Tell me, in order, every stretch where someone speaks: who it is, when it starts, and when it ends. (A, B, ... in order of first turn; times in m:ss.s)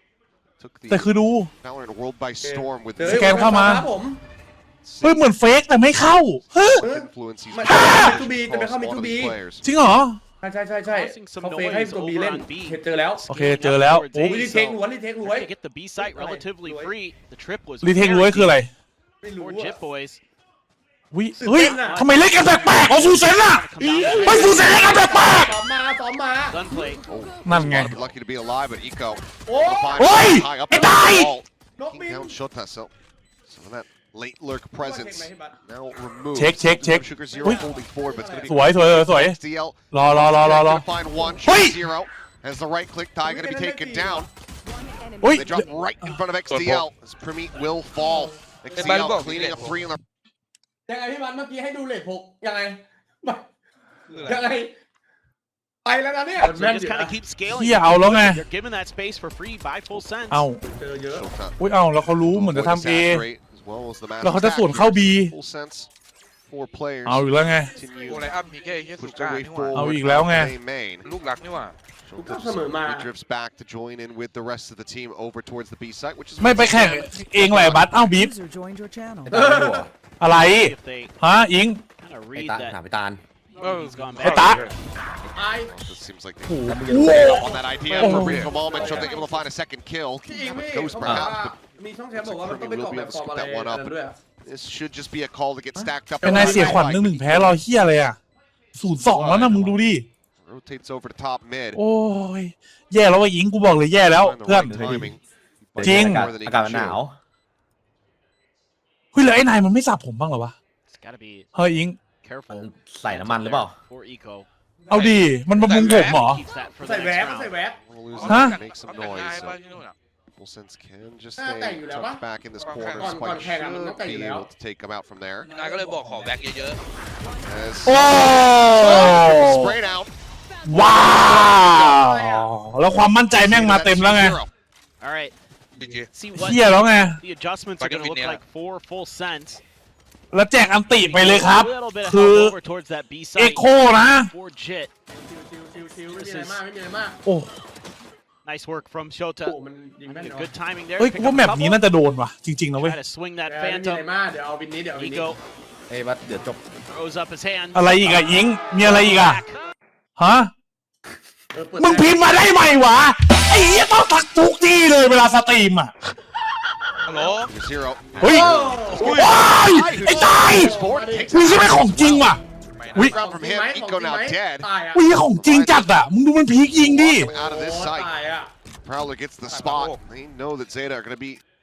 0:00.6-0:03.7 A
0:00.9-0:01.5 B
0:02.4-0:04.2 C
0:03.0-0:03.9 B
0:04.8-0:09.7 A
0:05.0-0:06.8 B
0:06.8-0:09.4 C
0:07.6-0:08.2 B
0:09.6-0:10.2 B
0:10.4-0:13.3 C
0:10.9-0:14.6 D
0:13.3-0:14.4 B
0:14.2-0:15.5 C
0:14.5-0:14.8 A
0:15.2-0:18.6 D
0:16.0-0:16.9 C
0:17.8-0:18.7 B
0:19.2-0:19.8 C
0:19.4-0:20.2 D
0:21.1-0:23.6 B
0:21.4-0:22.0 C
0:21.4-0:25.5 D
0:23.8-0:26.6 C
0:24.2-0:25.6 B
0:26.5-0:27.0 D
0:27.0-0:32.9 A
0:27.4-0:28.0 B
0:29.5-0:30.2 C
0:30.0-0:31.3 B
0:31.8-0:32.4 C
0:33.5-0:44.3 A
0:34.8-0:35.6 C
0:36.4-0:37.6 B
0:37.2-0:38.5 C
0:38.5-0:39.4 B
0:39.9-0:40.8 B
0:41.4-0:41.8 B
0:43.2-0:44.3 C
0:45.2-0:45.7 B
0:45.3-0:50.0 A
0:46.5-0:46.9 E
0:48.0-0:48.3 C
0:48.7-0:49.8 E
0:50.9-0:53.5 C
0:54.1-0:54.4 E
0:54.2-0:54.8 C
0:55.8-0:57.2 C
0:56.4-1:00.4 D
0:57.5-0:58.4 B
1:00.3-1:00.6 B
1:00.6-1:01.3 C
1:01.1-1:01.6 A
1:01.6-1:03.2 B
1:02.3-1:05.9 A
1:04.2-1:05.3 B
1:06.4-1:08.4 A
1:07.1-1:07.7 B
1:08.1-1:09.8 E
1:09.0-1:11.1 A
1:09.7-1:10.5 B
1:11.0-1:11.8 E
1:12.0-1:18.0 A
1:12.2-1:13.1 C
1:16.4-1:18.3 B
1:18.1-1:19.5 F
1:19.2-1:19.9 G
1:19.3-1:19.8 C
1:20.2-1:21.8 B
1:20.3-1:21.2 D
1:22.0-1:22.8 D
1:22.4-1:23.2 G
1:23.6-1:24.0 E
1:23.6-1:24.7 D
1:24.2-1:24.8 G
1:24.2-1:24.7 B
1:25.4-1:25.7 C
1:25.6-1:31.6 A
1:26.5-1:28.5 B
1:26.7-1:27.6 G
1:27.9-1:29.3 C
1:30.2-1:34.2 C
1:32.1-1:37.6 A
1:35.8-1:36.9 C
1:36.2-1:38.2 B
1:38.7-1:40.1 B
1:39.1-1:39.8 A
1:40.4-1:41.8 A
1:41.8-1:45.1 B
1:44.1-1:47.0 A
1:45.8-1:47.2 G
1:45.8-1:46.3 B
1:49.1-1:50.6 B
1:50.9-1:51.5 D
1:51.6-1:52.0 B
1:52.2-1:57.6 D
1:52.5-1:53.8 G
1:54.9-1:56.4 B
1:55.6-1:56.2 E
1:56.8-1:57.8 C
1:57.8-1:59.7 A
1:58.2-2:00.0 E
1:58.3-1:58.6 B
2:00.3-2:05.6 A
2:01.4-2:02.2 C
2:02.6-2:03.2 E
2:03.0-2:04.5 C
2:05.5-2:06.8 E
2:07.4-2:10.2 A
2:07.8-2:09.8 B
2:10.6-2:14.4 B
2:10.7-2:11.5 F
2:11.5-2:11.9 C
2:13.3-2:14.5 A
2:15.0-2:15.3 D
2:15.7-2:16.1 E
2:16.1-2:19.6 D
2:16.4-2:17.2 B
2:17.8-2:18.4 E
2:20.3-2:22.6 B
2:21.0-2:24.9 D
2:23.4-2:24.3 B
2:25.1-2:27.2 C
2:26.1-2:26.6 D
2:27.2-2:27.5 B
2:28.4-2:29.6 D
2:29.4-2:30.5 C
2:30.1-2:31.8 D
2:31.0-2:33.0 B
2:32.8-2:34.0 D
2:33.4-2:35.4 C
2:35.0-2:35.4 D
2:35.9-2:36.7 G
2:36.9-2:38.0 D
2:37.7-2:39.4 B
2:38.7-2:39.6 D
2:40.2-2:40.5 B
2:41.5-2:42.4 C
2:41.8-2:45.9 B
2:47.1-2:47.5 E
2:47.4-2:52.4 A
2:48.2-2:48.5 B
2:48.2-2:49.2 C
2:48.9-2:49.4 E
2:49.0-2:50.8 B
2:50.1-2:51.6 C
2:51.3-2:52.4 B
2:52.8-2:53.2 E
2:52.9-2:54.7 A
2:53.1-2:55.1 C
2:54.9-2:57.3 B
2:55.2-2:56.0 A
2:56.7-2:58.1 A
2:57.2-2:58.5 C
2:58.8-3:01.4 A
2:59.4-3:00.0 E